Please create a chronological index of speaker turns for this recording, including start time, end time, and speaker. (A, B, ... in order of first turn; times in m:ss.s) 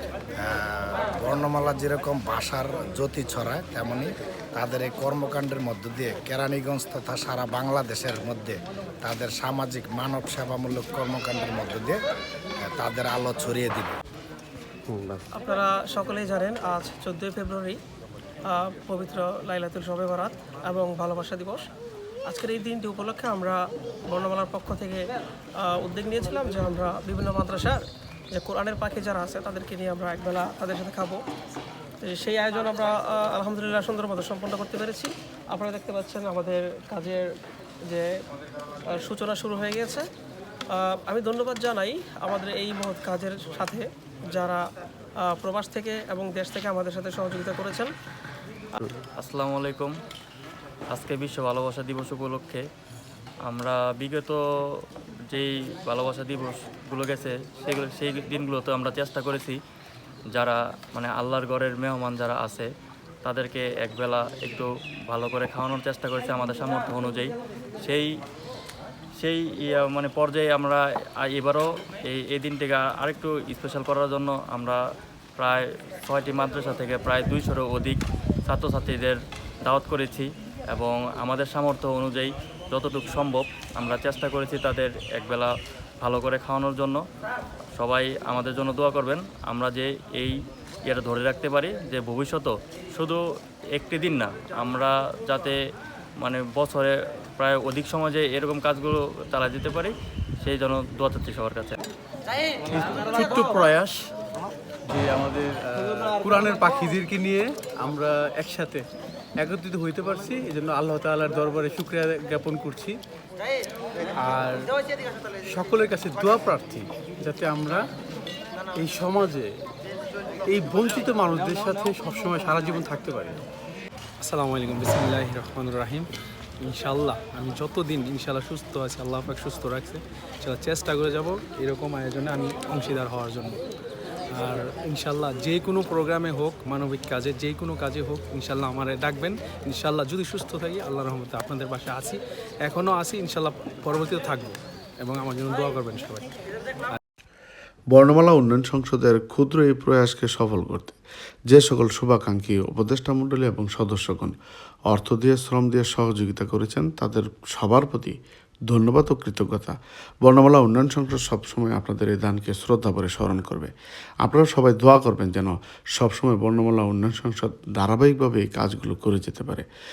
0:00.4-0:12.0 A
0:12.6-0:14.0 A
0:14.9-0:15.2 B
0:15.3-0:17.8 C
0:18.5-0:21.6 C
0:22.3-0:25.0 C
0:25.6-0:27.8 C
0:28.3-0:31.2 C
0:32.0-0:37.2 C
0:38.9-0:40.0 C
0:40.7-0:44.6 C
0:45.2-0:47.9 C
0:49.2-0:49.9 D
0:50.9-0:52.6 D
0:53.5-0:59.6 D
1:00.3-1:02.7 D
1:03.2-1:08.1 D
1:09.2-1:14.8 D
1:15.4-1:27.0 D
1:27.8-1:33.2 D
1:33.8-1:35.6 D
1:36.2-1:41.8 D
1:42.7-1:44.0 B
1:44.9-1:48.8 B
1:49.4-1:53.0 B
1:54.2-1:54.6 B
1:55.5-1:57.8 B
1:58.8-1:59.5 B
2:00.5-2:03.4 B
2:04.2-2:06.1 E
2:06.6-2:13.6 E
2:14.3-2:26.3 E
2:27.9-2:31.0 F
2:31.5-2:34.3 F
2:34.9-2:38.2 F
2:38.7-2:43.7 F
2:44.2-2:49.6 F